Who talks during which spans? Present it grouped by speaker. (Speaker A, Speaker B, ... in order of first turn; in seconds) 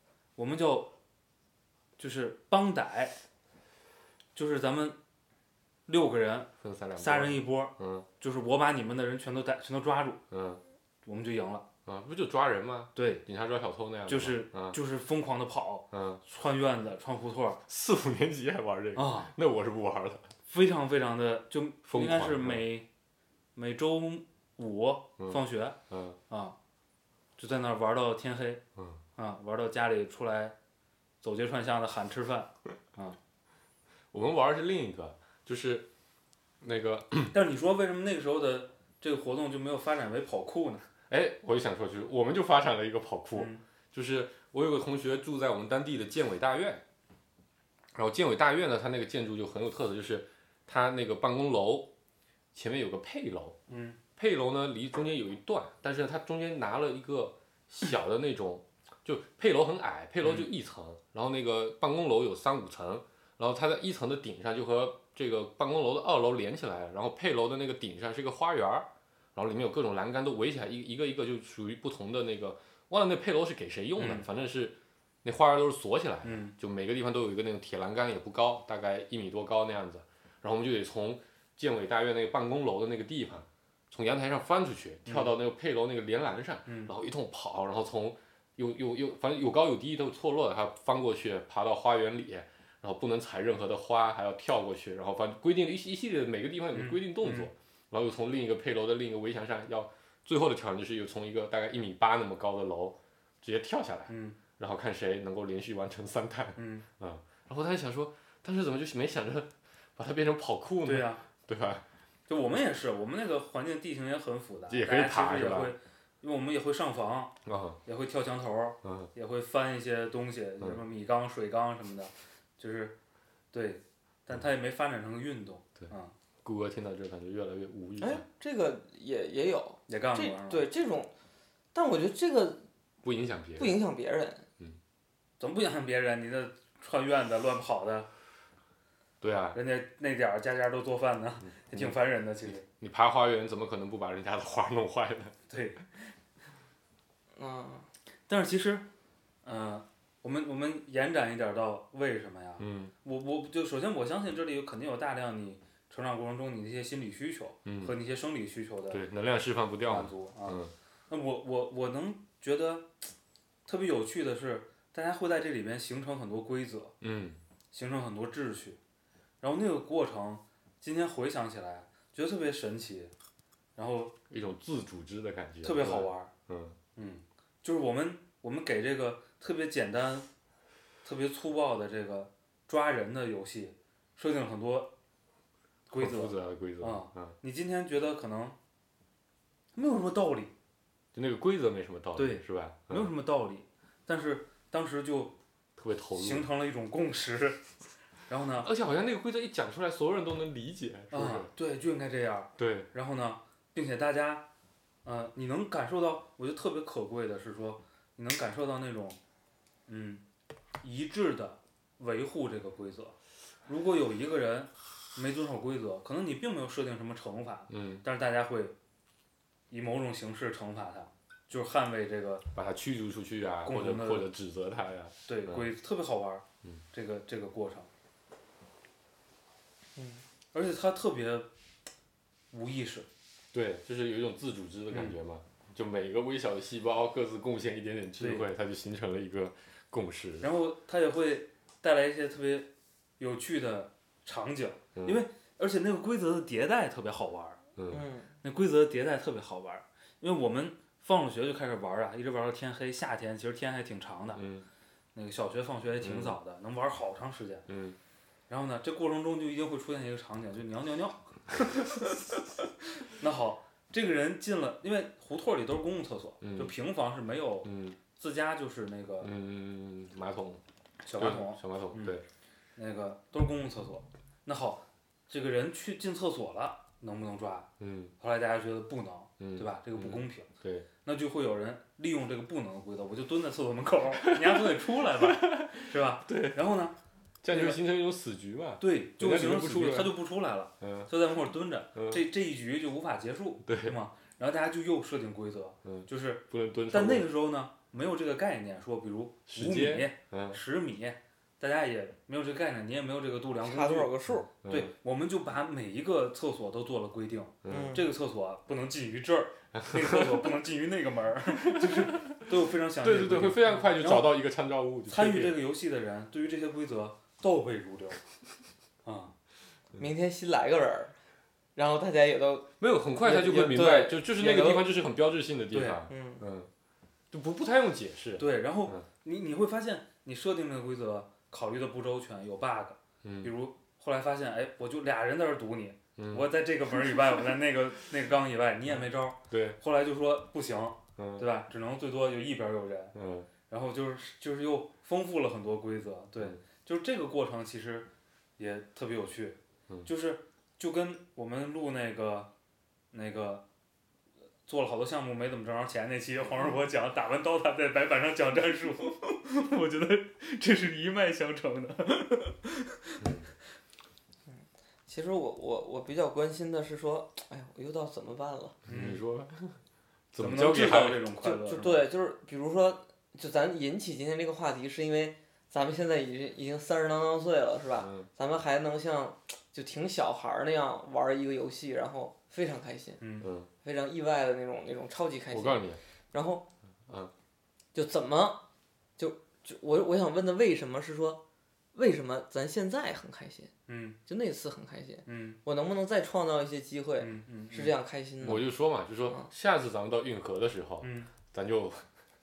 Speaker A: 0.4-0.9, 2.0-3.2, 4.3-5.0, 5.9-10.2, 11.0-11.6, 12.9-13.2, 14.1-17.6, 18.9-19.3, 20.5-22.9, 23.5-25.8, 26.3-26.6, 27.4-28.6, 29.1-30.6, 31.2-33.2, 37.3-40.9, 43.3-43.6, 53.7-54.0, 60.2-60.5, 74.0-74.2, 76.2-76.5, 85.0-85.3, 86.7-86.9, 96.7-97.5, 104.1-104.4, 106.6-106.8, 110.8-111.2, 112.3-117.3, 117.8-122.9, 123.5-126.1, 129.9-130.7, 135.4-138.1, 139.5-142.6, 145.5-145.8, 148.3-148.8, 149.4-159.0, 159.9-162.9, 163.7-166.9, 167.7-168.8, 169.4-173.1, 173.8-174.1, 175.6-176.3, 176.9-180.3, 181.0-184.9, 185.9-188.6, 189.7-190.5, 192.1-195.3, 196.1-197.6, 198.3-198.7, 201.1-204.4, 205.0-209.2, 209.9-210.2, 210.8-213.2, 213.7-218.7, 219.7-222.4, 223.6-224.3, 225.3-227.9, 230.5-231.5, 232.5-233.1, 234.9-235.2, 238.2-238.5, 240.4-247.6, 248.4-254.4, 255.1-257.7, 258.5-262.5, 263.0-269.3, 271.0-272.2, 272.8-280.5, 281.0-286.9, 287.5-287.8, 288.8-304.1, 304.6-314.4, 315.1-318.2, 319.0-319.3, 325.7-326.0, 328.4-343.1, 343.7-352.5, 353.1-353.6, 354.6-363.3, 368.9-369.2, 370.4-372.0, 383.2-383.5, 393.9-394.2, 395.2-395.6, 397.2-397.9, 401.0-401.3
Speaker B: 6.6-8.1, 10.3-10.6, 11.8-14.8, 15.9-16.2, 17.7-20.3, 21.8-22.6, 25.2-26.2, 34.1-35.9, 36.6-37.3, 41.1-46.8, 47.9-51.9, 52.5-53.6, 54.1-111.8, 114.7-115.7, 117.4-117.8, 118.8-119.1, 126.4-128.2, 133.0-133.8, 139.2-139.6, 141.4-145.4, 152.6-152.9, 157.6-157.9, 158.9-160.7, 167.0-167.4, 174.3-176.8, 185.9-187.3, 191.1-193.1, 195.8-196.5, 198.6-201.5, 202.6-202.9, 217.7-218.0, 222.5-225.7, 233.5-240.5, 244.9-245.2, 247.8-248.0, 254.3-254.7, 256.0-256.4, 257.7-258.0, 266.4-266.7, 267.6-268.0, 269.2-270.6, 271.1-272.2, 277.8-278.1, 279.4-280.9, 284.2-286.6, 287.4-290.1, 290.8-291.1, 291.9-292.2, 293.6-293.9, 295.8-297.3, 299.5-300.6, 304.6-304.9, 307.6-308.0, 309.7-310.5, 311.6-312.4, 313.0-315.6, 322.8-326.7, 327.3-329.1, 333.2-333.5, 336.2-336.5, 338.9-339.8, 341.2-341.4, 343.1-343.5, 363.2-363.5, 368.9-369.8, 370.3-371.3, 377.9-378.3, 383.4-383.7, 385.5-386.0, 387.1-387.3, 398.4-402.0
Speaker C: 128.0-131.1, 131.7-132.6, 133.6-134.4, 147.3-147.9, 230.0-230.2, 247.9-248.3, 303.6-304.5, 307.7-308.1, 320.0-321.1, 321.8-324.9, 326.1-326.4, 364.5-368.8, 371.4-383.2, 383.8-386.6, 387.9-388.6, 389.2-391.4, 391.9-393.7, 394.2-398.6